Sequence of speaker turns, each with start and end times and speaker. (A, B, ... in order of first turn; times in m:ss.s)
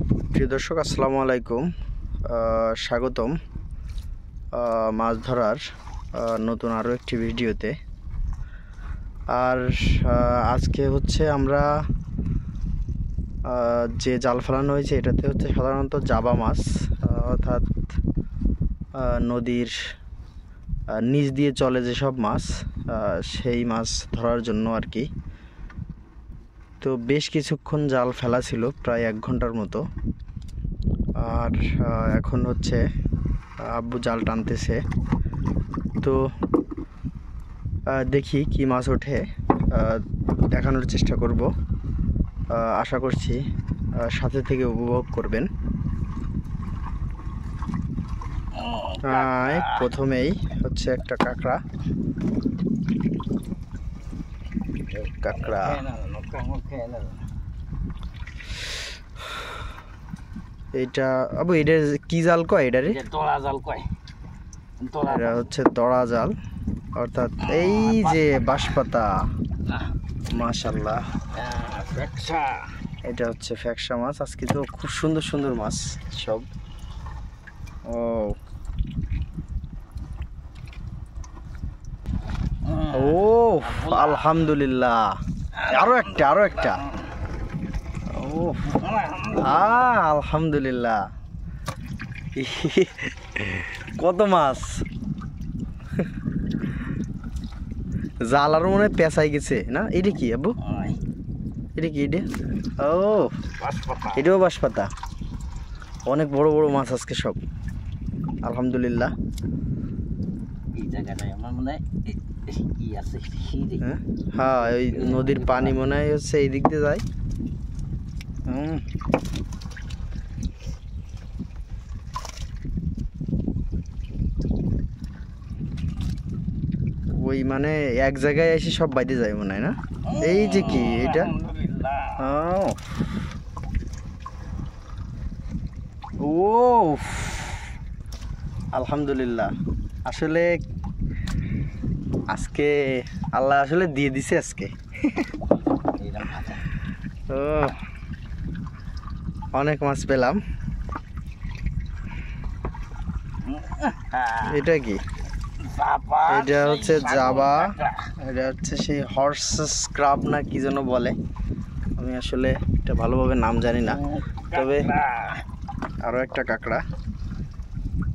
0:00.3-0:01.6 A
0:02.3-0:03.3 A
0:04.5-0:05.6 A
0:06.1-0:07.8 A
0:09.3-0:11.6 A
0:13.5-0:17.9 A
0:19.0-0:19.8 A
0:21.0-0:25.1 A
0:26.8-0:29.8 A
0:31.2-0:32.8 A
0:33.6-0:34.8 A
0:37.9-0:41.5 A
0:42.5-0:43.4 A
0:44.0-0:45.5 A
0:48.5-0:49.8 B
0:49.0-0:51.6 A
0:55.0-0:55.8 A
0:55.3-0:57.2 B
1:00.7-1:03.0 A
1:02.9-1:03.9 B
1:04.8-1:05.4 B
1:05.0-1:06.3 A
1:07.0-1:09.3 A
1:07.4-1:08.2 B
1:10.3-1:11.0 A
1:11.3-1:12.7 B
1:13.0-1:16.5 A
1:17.8-1:18.4 A
1:22.6-1:23.1 B
1:22.9-1:26.8 A
1:23.7-1:24.2 B
1:25.6-1:26.9 B
1:28.1-1:28.7 A
1:28.7-1:29.5 B
1:29.3-1:31.0 A
1:32.4-1:34.8 A
1:38.3-1:40.6 A
1:40.6-1:41.0 B
1:41.8-1:42.2 A
1:42.8-1:43.3 A
1:43.6-1:44.2 B
1:44.1-1:44.9 A
1:46.1-1:47.4 A
1:48.4-1:49.1 A
1:50.7-1:53.8 B
1:53.8-1:57.0 A
1:54.7-1:55.7 B
1:58.5-1:58.8 A
2:07.1-2:11.3 A
2:10.1-2:12.2 B
2:12.1-2:12.9 A
2:16.2-2:17.5 A
2:18.7-2:19.5 A
2:20.0-2:20.5 A
2:22.3-2:25.3 A
2:25.5-2:26.6 B
2:27.3-2:27.8 A
2:29.5-2:30.4 A
2:33.4-2:34.6 B
2:34.4-2:35.0 A
2:35.6-2:38.1 B
2:36.2-2:41.1 A
2:42.0-2:44.9 A
2:43.9-2:45.4 B
2:46.0-2:46.8 A